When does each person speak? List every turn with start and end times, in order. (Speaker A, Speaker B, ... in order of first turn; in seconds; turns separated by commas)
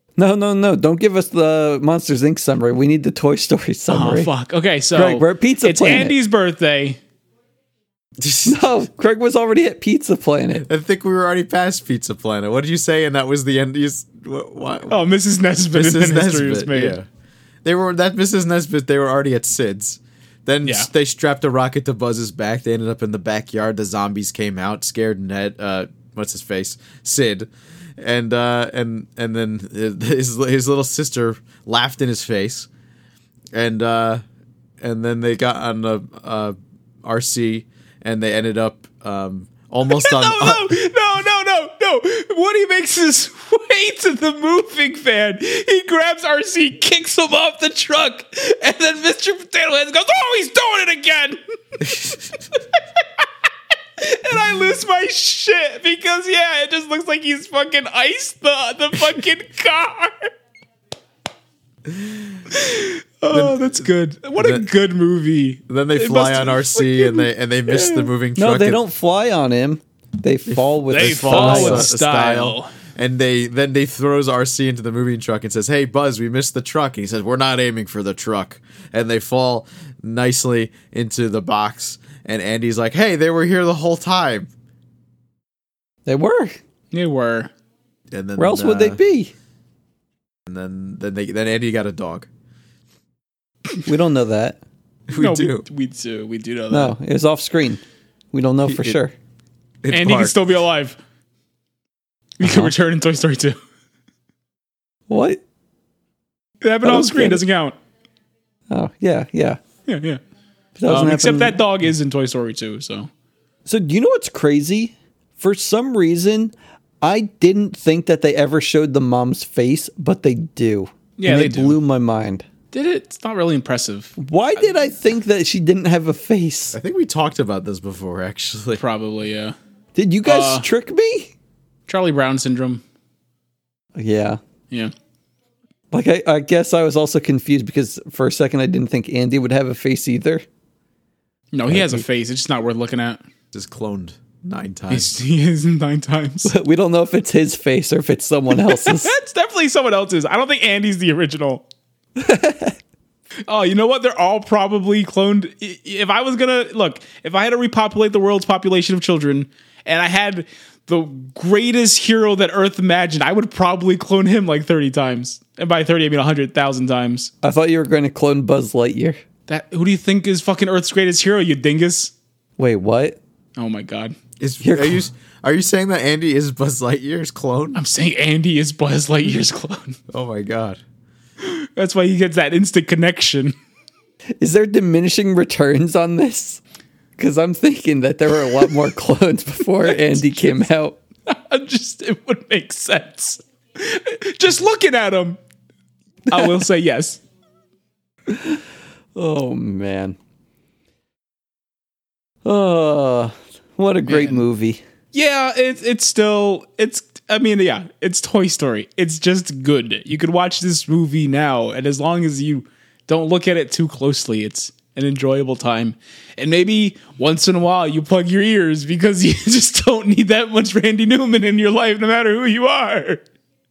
Speaker A: 0.2-4.3, Speaker B: 3.9-7.0, Speaker A: 4.9-6.2, Speaker C: 8.2-8.7, Speaker A: 8.4-10.7, Speaker C: 10.7-15.0, Speaker B: 14.9-17.0, Speaker C: 15.7-17.1, Speaker C: 17.6-32.7, Speaker C: 33.5-34.2, Speaker C: 34.8-40.7, Speaker B: 39.9-51.4, Speaker B: 54.0-60.3, Speaker C: 61.9-62.2, Speaker B: 62.5-67.3, Speaker C: 63.3-63.8, Speaker C: 64.4-64.7, Speaker C: 65.7-68.8, Speaker A: 68.3-71.9, Speaker C: 70.5-84.5, Speaker B: 70.9-72.7, Speaker A: 86.0-86.6, Speaker B: 86.9-87.5, Speaker C: 88.1-89.0, Speaker A: 88.4-89.3, Speaker C: 90.5-92.3, Speaker A: 93.9-94.6, Speaker C: 95.1-95.6, Speaker B: 95.2-97.0, Speaker A: 96.7-99.1, Speaker C: 98.7-99.0, Speaker C: 99.8-100.5, Speaker B: 99.9-101.0, Speaker B: 102.4-103.6, Speaker A: 102.4-102.7, Speaker A: 105.1-105.4, Speaker B: 106.6-107.8, Speaker A: 106.8-107.4, Speaker A: 108.7-109.6, Speaker B: 109.9-110.2, Speaker A: 110.8-111.6, Speaker B: 110.9-113.1, Speaker A: 113.7-122.5, Speaker B: 121.2-121.8, Speaker B: 122.7-124.2, Speaker A: 124.2-126.8, Speaker C: 126.7-128.8, Speaker B: 128.8-129.6, Speaker A: 129.9-131.3, Speaker B: 130.3-130.7, Speaker B: 131.9-132.8, Speaker A: 134.0-134.4, Speaker A: 135.9-140.4, Speaker B: 141.5-143.2, Speaker A: 141.7-142.0, Speaker C: 143.5-145.2, Speaker B: 144.9-146.5, Speaker A: 146.5-149.1, Speaker B: 148.6-151.7, Speaker A: 152.2-152.8, Speaker B: 153.5-167.3, Speaker A: 167.4-169.2, Speaker B: 169.5-172.1, Speaker A: 172.6-173.2, Speaker B: 173.6-174.2, Speaker C: 174.4-177.8, Speaker A: 174.6-175.0, Speaker B: 177.8-180.0, Speaker C: 180.1-180.8, Speaker B: 181.4-183.6, Speaker A: 184.4-186.6, Speaker A: 187.2-191.0, Speaker B: 189.9-190.3, Speaker B: 191.3-195.4, Speaker B: 196.3-197.2, Speaker A: 198.3-198.6, Speaker A: 199.2-200.2, Speaker A: 202.4-204.8, Speaker B: 204.0-204.4, Speaker B: 205.1-223.2